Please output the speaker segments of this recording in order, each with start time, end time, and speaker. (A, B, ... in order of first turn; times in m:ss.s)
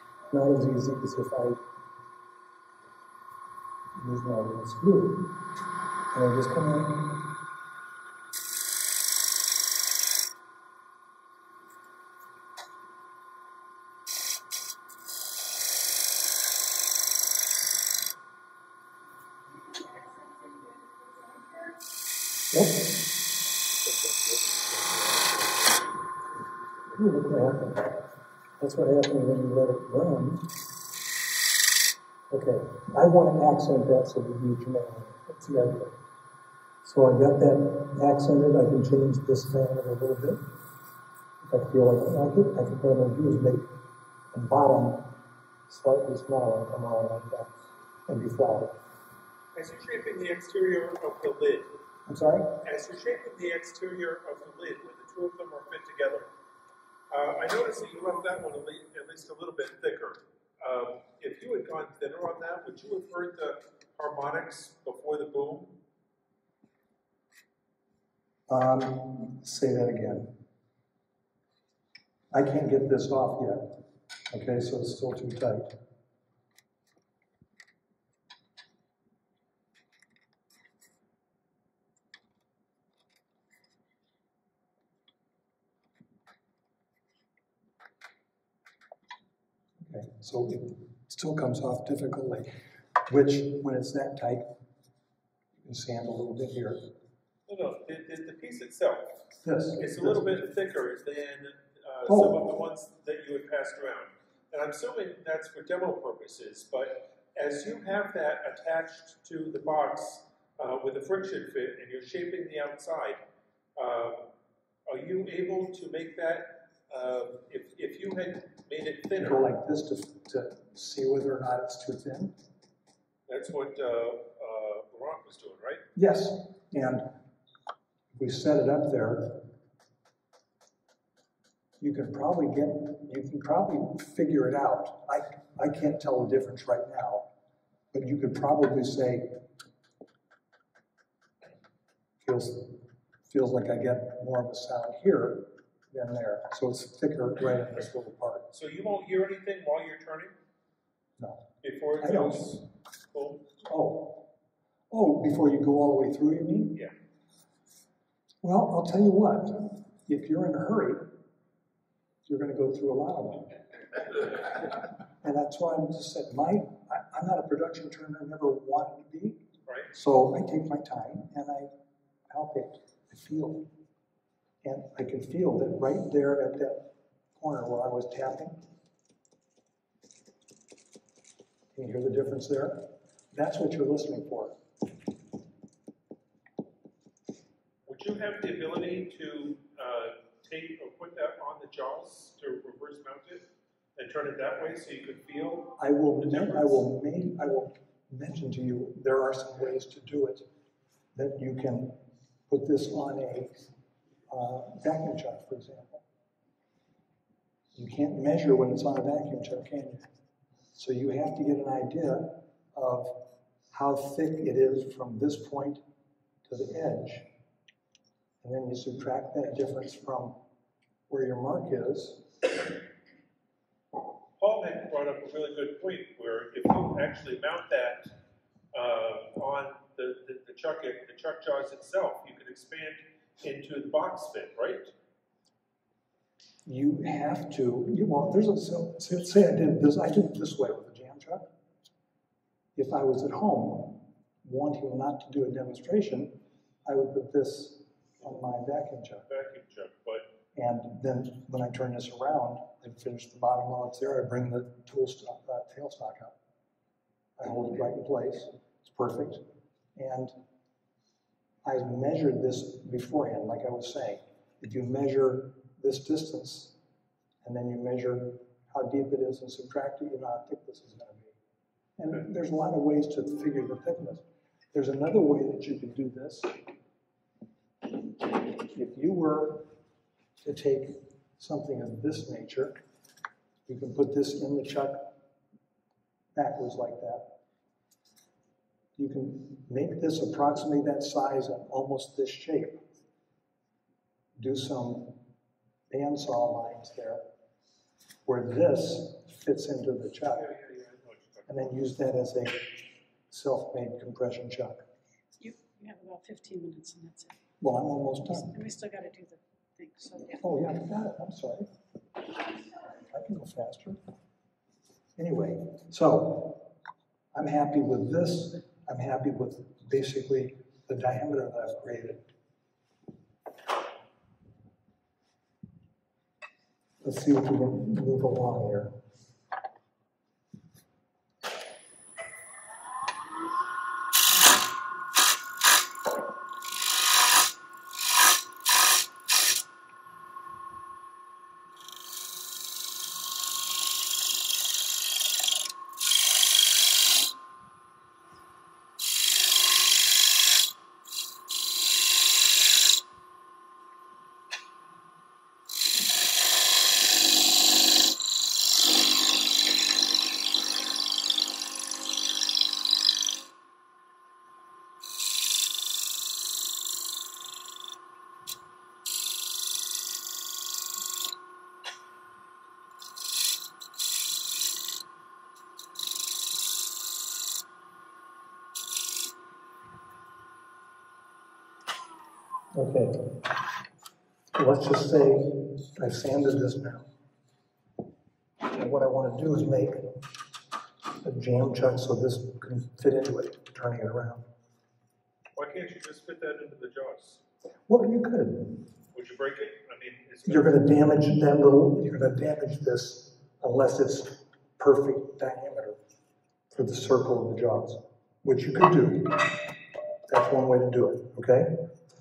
0:00.3-0:01.6 A
0:04.0-0:05.4 A
0:06.1-0:07.3 A
0:19.5-0:21.8 B
0:22.5-0:23.0 A
0:26.9-0:30.5 A
0:32.3-0:36.0 A
0:36.8-0:40.4 A
0:41.4-0:43.7 A
0:44.3-0:45.1 A
0:45.7-0:47.5 A
0:48.1-0:48.7 A
0:49.5-0:51.7 C
0:52.1-0:52.6 A
0:52.6-0:56.3 C
0:57.1-1:05.7 C
1:08.5-1:10.3 A
1:12.3-1:13.8 A
1:14.3-1:15.7 A
1:29.8-1:32.5 A
1:33.1-1:34.5 A
1:35.6-1:36.8 A
1:37.5-1:53.2 C
1:39.4-1:40.3 A
1:42.0-1:42.5 A
1:53.8-1:54.3 C
1:54.8-1:59.5 C
1:59.2-2:02.3 A
2:03.3-2:05.8 C
2:06.0-2:07.0 A
2:08.1-2:09.4 A
2:11.8-2:17.3 A
2:17.9-2:19.4 A
2:22.2-2:28.5 A
2:28.5-2:30.3 C
2:31.2-2:32.6 A
2:31.6-2:33.4 C
2:33.6-2:34.2 A
2:34.9-2:36.8 A
2:38.4-2:41.1 A
2:42.2-2:43.5 A
2:45.2-2:49.4 A
2:49.9-2:51.7 A
2:52.3-2:53.6 A
2:54.6-2:58.6 A
3:01.7-3:04.6 A
3:07.8-3:16.8 C
3:15.8-3:20.4 A
3:21.1-3:22.0 A
3:22.5-3:23.6 A
3:24.3-3:26.0 A
3:27.7-3:30.0 A
3:30.7-3:33.1 A
3:33.7-3:35.8 A
3:36.4-3:37.3 A
3:38.4-3:40.4 A
3:41.1-3:42.3 A
3:44.4-3:48.1 C
3:48.7-3:54.9 C
3:56.6-4:01.5 A
4:02.8-4:06.3 A
4:06.8-4:09.2 A
4:09.3-4:10.3 C
4:10.6-4:16.3 A
4:17.4-4:19.4 A
4:20.0-4:20.4 A
4:21.6-4:26.8 A
4:27.4-4:31.4 A
4:32.0-4:36.6 A
4:38.6-4:39.7 A
4:40.4-4:42.8 A
4:43.7-4:45.1 A
4:46.3-4:47.3 A
4:49.0-4:52.8 A
4:54.4-4:55.2 A
4:55.9-4:57.2 A
4:58.2-5:00.5 A
5:00.3-5:01.6 C
5:01.5-5:02.8 A
5:03.3-5:04.8 A
5:05.4-5:07.4 B
5:07.6-5:08.6 A
5:08.3-5:10.4 B
5:10.4-5:11.7 A
5:13.1-5:14.0 A
5:15.2-5:16.6 A
5:17.3-5:22.2 A
5:27.0-5:28.9 A
6:22.7-6:23.6 A
6:24.5-6:27.1 A
6:28.7-6:30.2 A
6:31.2-6:34.4 A
6:35.5-6:37.4 C
6:37.9-6:38.8 A
6:39.1-6:40.8 C
6:40.4-6:46.0 A
6:46.7-6:49.6 A
6:50.3-6:51.8 A